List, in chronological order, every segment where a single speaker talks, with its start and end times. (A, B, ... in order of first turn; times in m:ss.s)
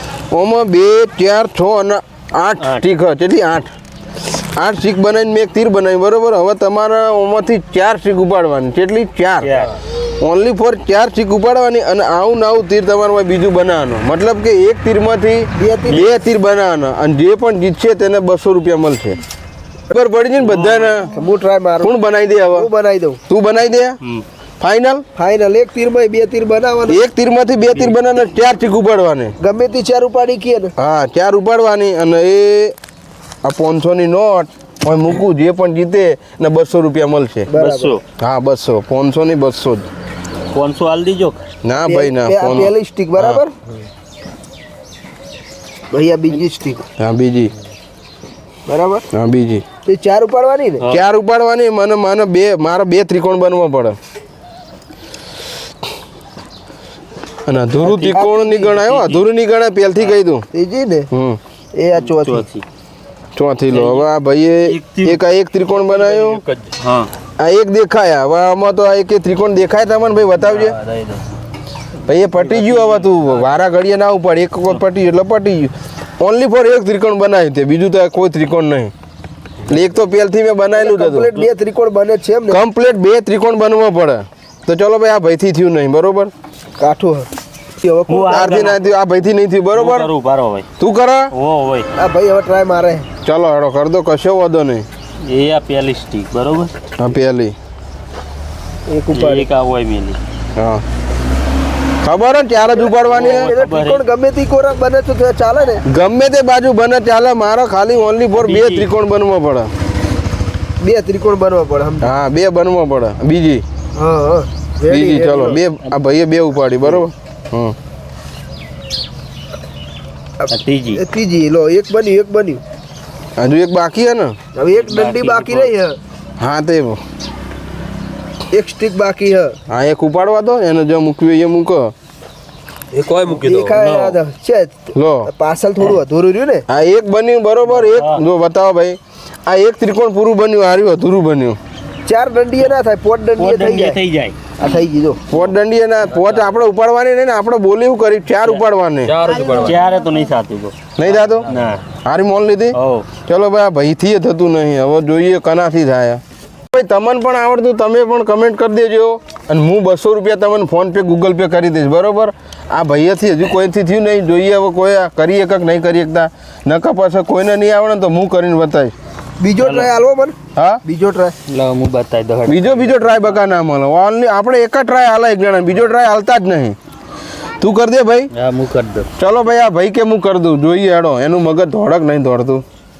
0:00.3-0:03.7 A
0:02.6-0:02.8 B
0:04.4-0:09.5 A
0:09.4-0:09.7 B
0:10.2-0:19.2 A
0:15.6-0:16.1 C
0:19.9-0:21.1 A
0:20.4-0:21.0 B
0:21.1-0:21.9 C
0:21.8-0:22.7 A
0:22.5-0:23.2 C
0:23.3-0:24.0 A
0:24.6-0:25.0 A
0:25.1-0:27.0 C
0:26.9-0:29.3 A
0:29.4-0:30.7 C
0:30.8-0:32.7 A
0:33.4-0:37.5 A
0:37.5-0:37.9 C
0:37.5-0:38.0 B
0:38.2-0:39.9 A
0:40.5-0:41.4 B
0:41.6-0:42.7 A
0:41.8-0:43.5 C
0:45.9-0:46.8 C
0:47.0-0:47.5 A
0:48.6-0:49.0 C
0:49.1-0:49.6 A
0:49.8-0:50.8 C
0:50.9-0:54.0 A
0:57.4-1:00.4 A
0:57.8-0:59.0 C
0:59.0-0:59.2 B
1:00.5-1:01.1 C
1:01.1-1:01.4 A
1:01.7-1:02.4 C
1:02.0-1:02.6 B
1:03.4-1:06.4 A
1:03.7-1:04.1 B
1:04.6-1:05.2 B
1:05.8-1:06.8 D
1:06.8-1:07.1 B
1:07.4-1:10.8 A
1:10.4-1:11.4 D
1:12.0-1:18.9 A
1:12.6-1:13.2 D
1:19.6-1:21.3 A
1:20.7-1:22.6 C
1:22.5-1:26.3 A
1:26.8-1:27.3 C
1:27.8-1:28.6 C
1:28.1-1:28.8 B
1:28.3-1:30.1 A
1:29.7-1:30.7 B
1:30.8-1:31.3 A
1:31.3-1:31.9 B
1:32.0-1:33.1 C
1:33.2-1:34.8 A
1:35.3-1:36.7 B
1:37.0-1:37.5 A
1:38.9-1:39.5 C
1:39.1-1:40.2 B
1:40.6-1:40.8 A
1:42.0-1:43.5 A
1:42.8-1:45.8 C
1:43.1-1:44.0 B
1:45.8-1:49.7 A
1:48.3-1:48.9 B
1:50.8-1:52.1 C
1:52.0-1:53.6 A
1:54.0-1:55.6 C
1:54.9-1:57.7 A
2:00.4-2:02.6 C
2:00.5-2:01.0 B
2:03.4-2:04.4 A
2:04.5-2:06.0 C
2:04.7-2:05.7 B
2:06.4-2:07.0 A
2:08.5-2:09.6 C
2:09.7-2:11.9 A
2:12.9-2:14.2 D
2:13.3-2:16.6 C
2:14.9-2:15.3 A
2:16.7-2:21.6 A
2:17.8-2:18.2 B
2:22.0-2:24.0 C
2:23.4-2:24.4 B
2:24.6-2:25.3 C
2:25.3-2:29.2 A
2:26.1-2:26.4 D
2:29.0-2:29.8 D
2:29.5-2:30.9 B
2:31.0-2:31.5 A
2:31.0-2:31.8 D
2:31.5-2:31.8 B
2:32.0-2:48.9 A
2:32.7-2:33.1 B
2:49.4-2:51.3 C
2:49.6-2:49.9 B
2:50.6-2:50.8 A
2:51.5-2:53.4 B
2:52.4-2:56.8 A
2:57.6-2:58.3 A
2:58.3-2:59.1 B
2:59.2-3:02.6 A